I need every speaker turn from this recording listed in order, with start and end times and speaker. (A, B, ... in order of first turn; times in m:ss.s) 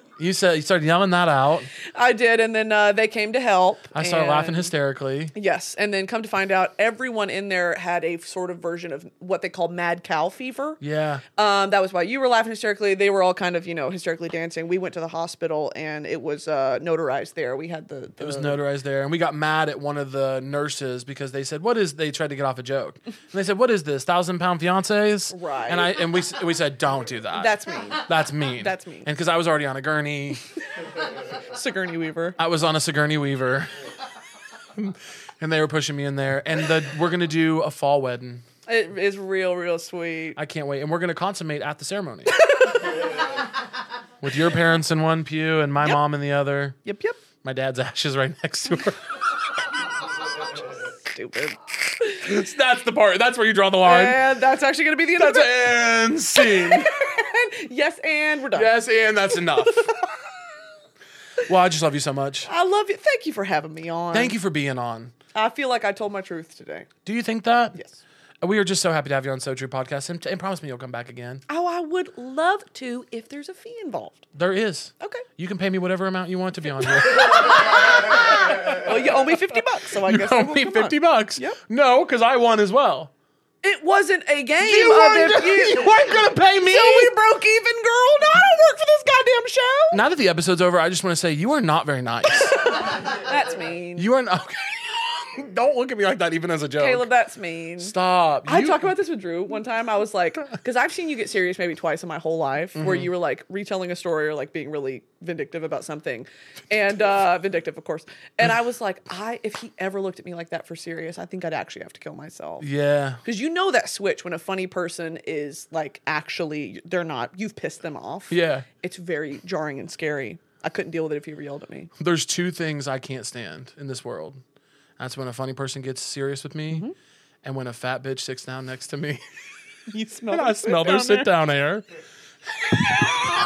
0:00.2-0:01.7 A
0:01.9-0:04.7 B
0:03.9-0:05.3 A
0:05.4-0:10.8 B
0:10.8-0:11.2 A
0:11.4-0:18.6 B
0:18.2-0:30.4 A
0:25.3-0:26.0 B
0:27.4-0:29.1 B
0:31.5-0:32.4 B
0:32.4-0:33.7 A
0:34.8-0:38.4 A
0:38.7-0:40.4 B
0:40.4-0:42.4 A
0:42.4-0:43.0 B
0:44.2-0:46.8 A
0:46.8-0:47.2 B
0:47.4-0:49.1 A
0:50.8-0:52.2 B
0:52.1-0:54.2 A
0:53.8-0:55.7 B
0:55.2-0:56.9 A
0:56.4-0:58.8 B
0:58.5-0:59.9 A
0:59.3-1:00.2 B
1:01.4-1:02.5 A
1:02.5-1:04.3 B
1:04.1-1:05.1 A
1:05.4-1:06.9 B
1:07.0-1:07.8 A
1:08.4-1:11.4 A
1:11.5-1:14.3 B
1:14.4-1:17.6 A
1:17.0-1:21.6 B
1:20.0-1:23.1 A
1:23.6-1:26.2 B
1:24.6-1:27.1 A
1:26.7-1:30.0 B
1:29.9-1:32.6 A
1:32.5-1:34.1 B
1:34.0-1:37.1 A
1:36.8-1:37.9 B
1:37.8-1:38.9 A
1:38.5-1:52.7 B
1:42.8-1:43.1 A
1:52.6-1:53.2 A
1:53.2-2:01.9 B
1:58.3-1:58.7 A
2:02.0-2:04.4 A
2:05.0-2:06.9 A
2:07.4-2:09.2 A
2:09.9-2:11.3 B
2:10.3-2:11.8 A